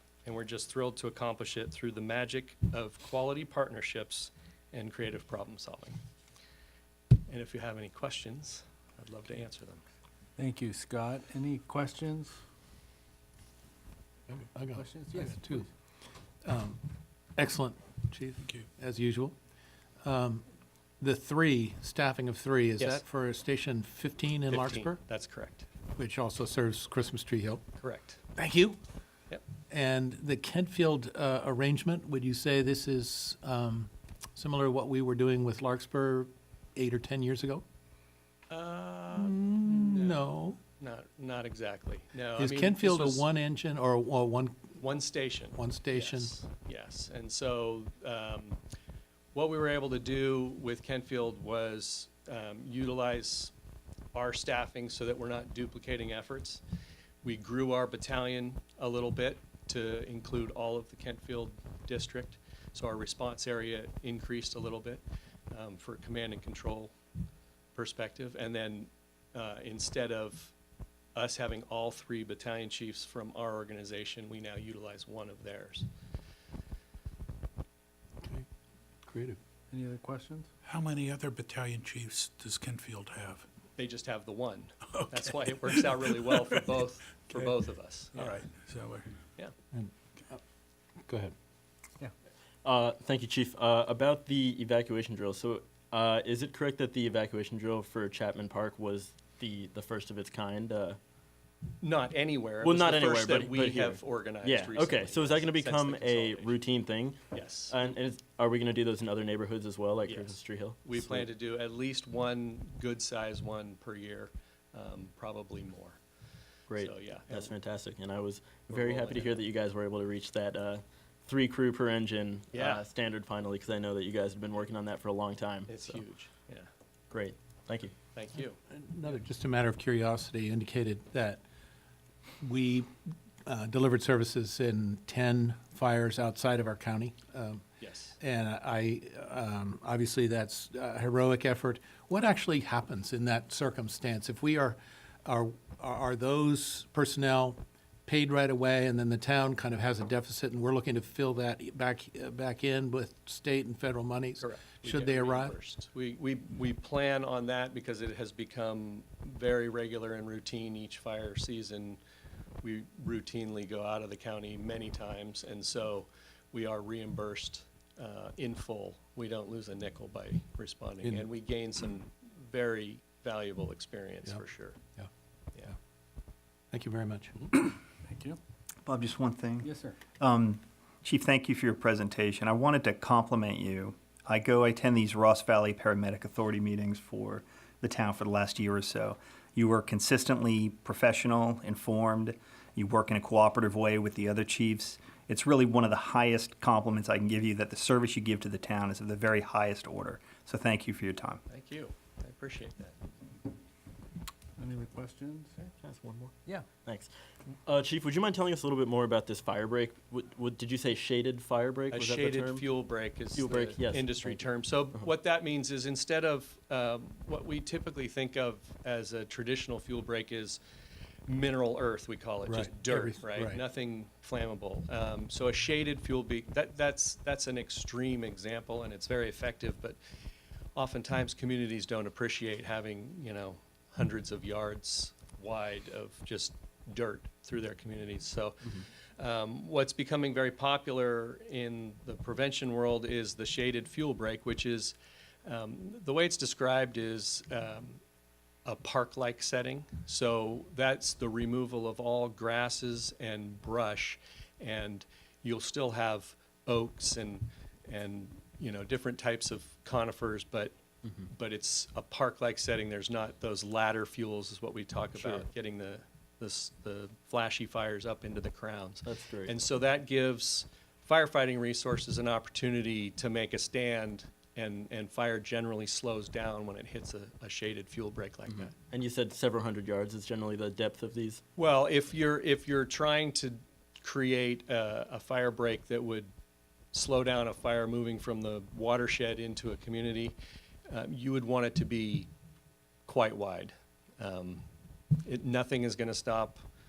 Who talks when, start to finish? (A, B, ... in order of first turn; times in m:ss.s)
0:00.2-0:06.0 A
0:07.3-0:09.8 A
0:10.4-0:12.4 B
0:14.3-0:15.7 C
0:14.8-0:15.4 B
0:16.4-0:19.4 C
0:20.0-0:20.4 C
0:21.0-0:25.0 C
0:22.8-0:23.0 A
0:24.5-0:25.7 A
0:26.0-0:27.6 C
0:27.8-0:28.2 A
0:28.4-0:28.8 C
0:29.7-0:37.6 C
0:38.5-0:43.2 A
0:39.2-0:40.6 C
0:42.4-0:44.8 C
0:44.8-0:48.6 A
0:45.6-0:46.3 C
0:49.3-0:53.5 A
0:54.1-0:56.6 A
0:57.2-1:06.9 A
1:07.8-1:10.5 A
1:11.2-1:15.9 A
1:19.0-1:19.4 C
1:19.7-1:20.5 B
1:20.6-1:23.5 D
1:23.8-1:28.4 A
1:24.9-1:26.5 D
1:28.2-1:29.2 D
1:29.7-1:30.4 C
1:31.1-1:31.3 C
1:32.6-1:41.0 E
1:41.8-1:46.6 A
1:42.6-1:51.3 E
1:47.3-1:47.8 A
1:50.1-1:56.0 A
1:56.7-2:06.0 E
1:56.8-1:57.5 A
1:58.7-1:59.4 A
2:02.5-2:02.8 A
2:05.7-2:06.7 A
2:07.1-2:07.9 E
2:08.1-2:08.6 A
2:08.7-2:11.4 C
2:12.4-2:12.9 C
2:13.4-2:17.6 C
2:17.8-2:18.2 A
2:18.2-2:35.6 C
2:34.4-2:42.0 A
2:42.6-2:54.8 A
2:56.7-2:57.6 C
2:58.0-2:58.4 B
2:58.8-3:21.4 F
2:59.6-3:00.0 B
3:21.5-3:23.0 A
3:24.6-3:25.7 B
3:25.8-3:27.1 E
3:27.6-3:32.7 E
3:31.9-3:40.6 A
3:33.3-3:34.4 E
3:41.3-3:50.0 A
3:42.5-3:43.6 C
3:50.8-4:08.0 A
4:08.6-4:38.7 A
4:25.2-4:25.5 E
4:29.0-4:29.6 E
4:38.7-4:41.4 E
4:41.6-4:46.3 A
4:46.9-4:50.4 A
4:50.9-4:52.3 A
4:53.1-4:54.7 A
4:55.2-4:56.6 A